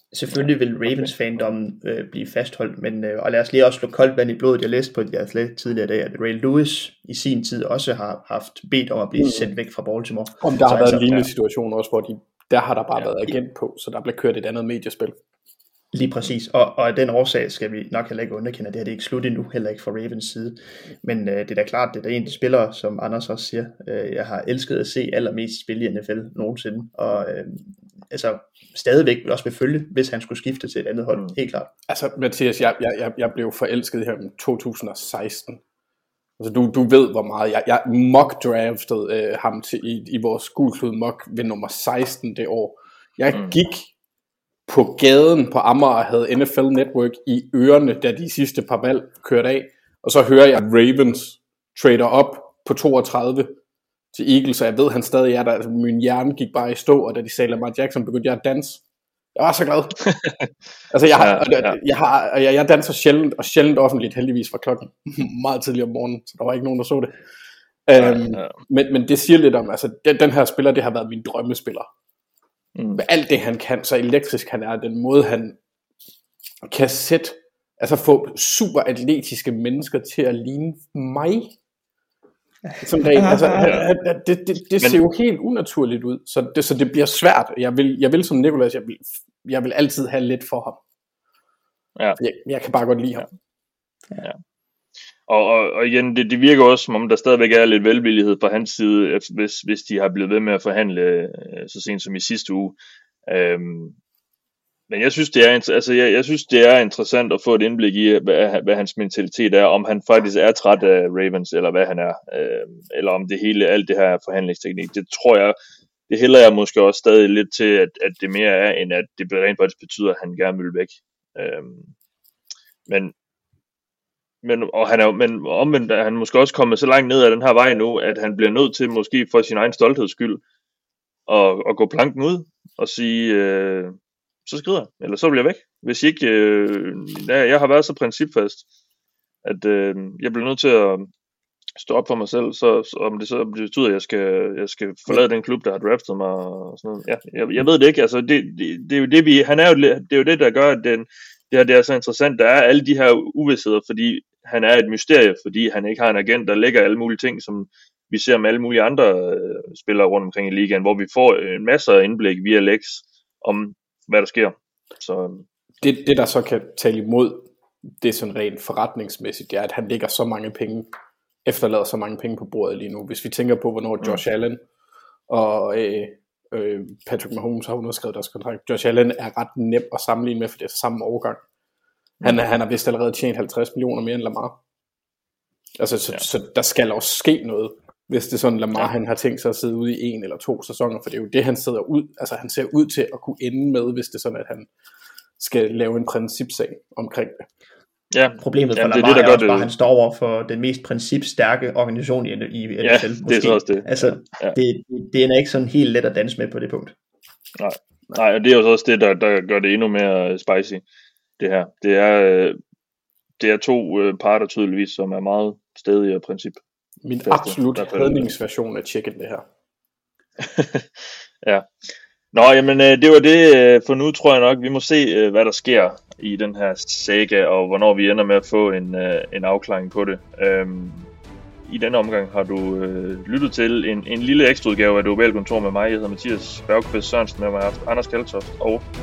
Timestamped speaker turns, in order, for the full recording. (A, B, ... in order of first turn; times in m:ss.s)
0:00.1-0:11.2 A
0:09.2-0:09.5 B
0:10.4-0:15.2 B
0:15.9-0:31.7 A
0:31.9-0:35.6 B
0:36.4-0:43.9 B
0:44.7-0:53.6 B
0:54.1-0:58.8 B
0:59.4-1:00.0 B
1:00.0-1:00.5 C
1:00.9-1:07.1 B
1:01.1-1:01.8 C
1:07.9-1:11.9 B
1:08.0-1:08.5 C
1:12.8-1:13.0 C
1:13.0-1:15.6 B
1:16.6-1:21.6 B
1:22.7-1:23.7 A
1:22.8-1:30.8 B
1:23.6-1:23.9 C
1:32.2-1:33.2 B
1:35.3-1:42.8 C
1:43.3-1:44.0 C
1:44.9-1:55.6 C
1:56.1-2:01.9 C
2:02.9-2:03.1 C
2:04.4-2:10.4 C
2:11.3-2:18.6 C
2:19.4-2:21.1 C
2:21.8-2:45.4 C
2:45.8-2:47.5 B
2:48.0-2:50.9 B
2:51.4-2:54.6 B
2:55.3-3:01.4 B
3:02.2-3:04.6 B
3:05.8-3:14.7 B
3:15.4-3:17.5 B
3:18.1-3:19.7 C
3:18.4-3:26.9 A
3:22.8-3:24.6 C
3:27.6-3:30.8 C
3:31.4-3:32.6 C
3:33.4-3:36.6 C
3:37.0-3:39.4 B
3:37.3-3:38.2 C
3:40.4-3:41.7 C
3:42.3-3:51.1 C
3:51.6-3:58.8 C